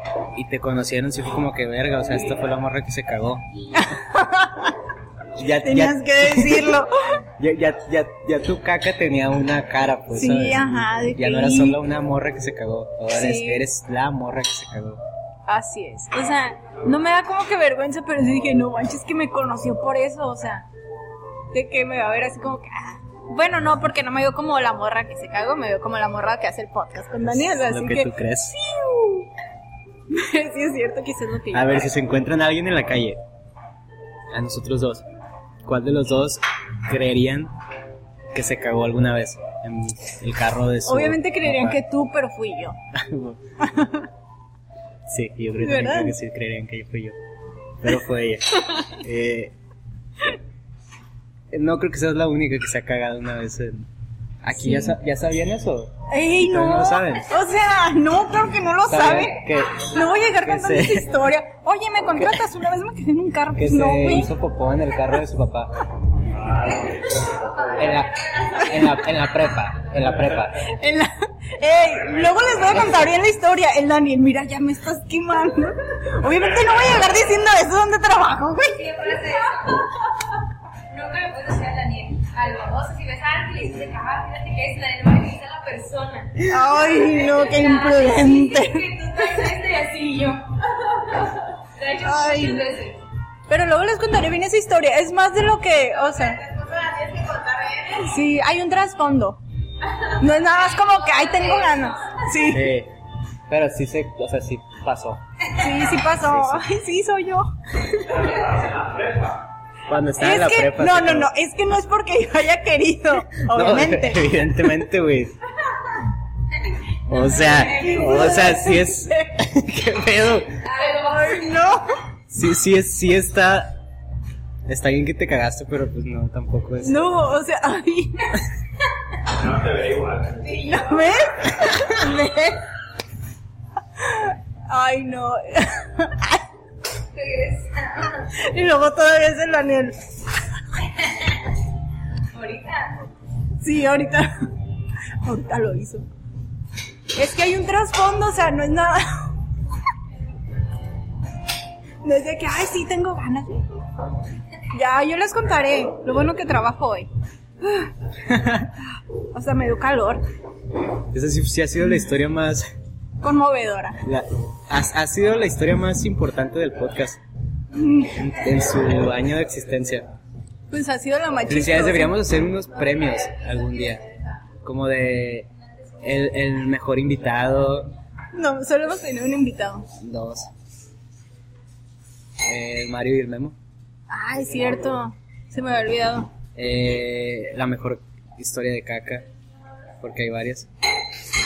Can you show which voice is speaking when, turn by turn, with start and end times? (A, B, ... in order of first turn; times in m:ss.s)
0:00.3-0:03.5 A
0:03.7-0:04.8 B
0:05.4-0:06.9 A
0:05.6-0:07.2 B
0:07.4-0:15.0 A
0:10.1-0:11.8 B
0:13.1-0:13.6 B
0:15.5-0:20.7 B
0:21.5-0:29.3 B
0:27.2-0:28.6 A
0:30.1-0:31.9 B
0:31.5-0:33.2 A
0:34.3-0:35.0 A
0:35.6-0:37.5 A
0:38.3-0:41.8 A
0:40.8-0:42.8 B
0:42.9-0:43.4 A
0:43.6-0:44.1 B
0:45.1-0:47.2 A
0:45.6-0:46.1 B
0:47.8-0:49.5 A
0:51.5-0:53.9 A
0:54.4-0:57.3 A
0:54.6-0:54.9 B
0:56.1-1:04.3 B
0:58.9-1:01.1 A
1:03.5-1:05.8 A
1:07.6-1:10.6 A
1:10.7-1:19.2 B
1:12.7-1:13.0 A
1:18.8-1:19.9 C
1:20.9-1:33.0 C
1:26.4-1:29.0 B
1:32.0-1:32.7 B
1:33.5-1:36.4 B
1:36.3-1:38.0 C
1:38.0-1:39.4 B
1:40.0-1:42.7 B
1:42.4-1:42.9 A
1:43.5-1:45.2 A
1:45.5-1:48.3 B
1:46.1-1:46.6 A
1:49.9-1:51.3 A
1:50.2-1:54.4 B
1:53.4-1:55.3 A
1:57.1-2:00.6 A
1:57.7-1:58.9 B
2:00.8-2:01.3 C
2:00.8-2:01.9 B
2:02.3-2:03.8 A
2:04.7-2:07.0 A
2:06.8-2:08.4 B
2:10.3-2:10.8 C
2:10.4-2:12.6 B
2:14.0-2:16.4 B
2:17.1-2:18.2 C
2:18.2-2:20.1 B
2:22.3-2:23.0 C
2:23.6-2:24.3 B
2:25.2-2:26.1 B
2:27.1-2:29.3 B
2:32.0-2:33.6 B
2:34.7-2:37.1 B
2:37.6-2:37.9 B
2:38.3-2:38.7 A
2:39.3-2:40.2 B
2:41.1-2:42.7 A
2:43.2-2:44.0 B
2:44.0-2:47.2 A
2:47.8-2:48.1 B
2:48.1-2:50.1 A
2:50.7-2:52.1 B
2:51.5-2:54.0 A
2:54.6-2:55.5 A
2:56.0-2:57.9 A
2:58.3-2:59.9 B
3:00.0-3:00.5 A
3:02.4-3:03.6 A
3:04.1-3:06.3 B
3:06.5-3:09.3 A
3:10.0-3:10.7 A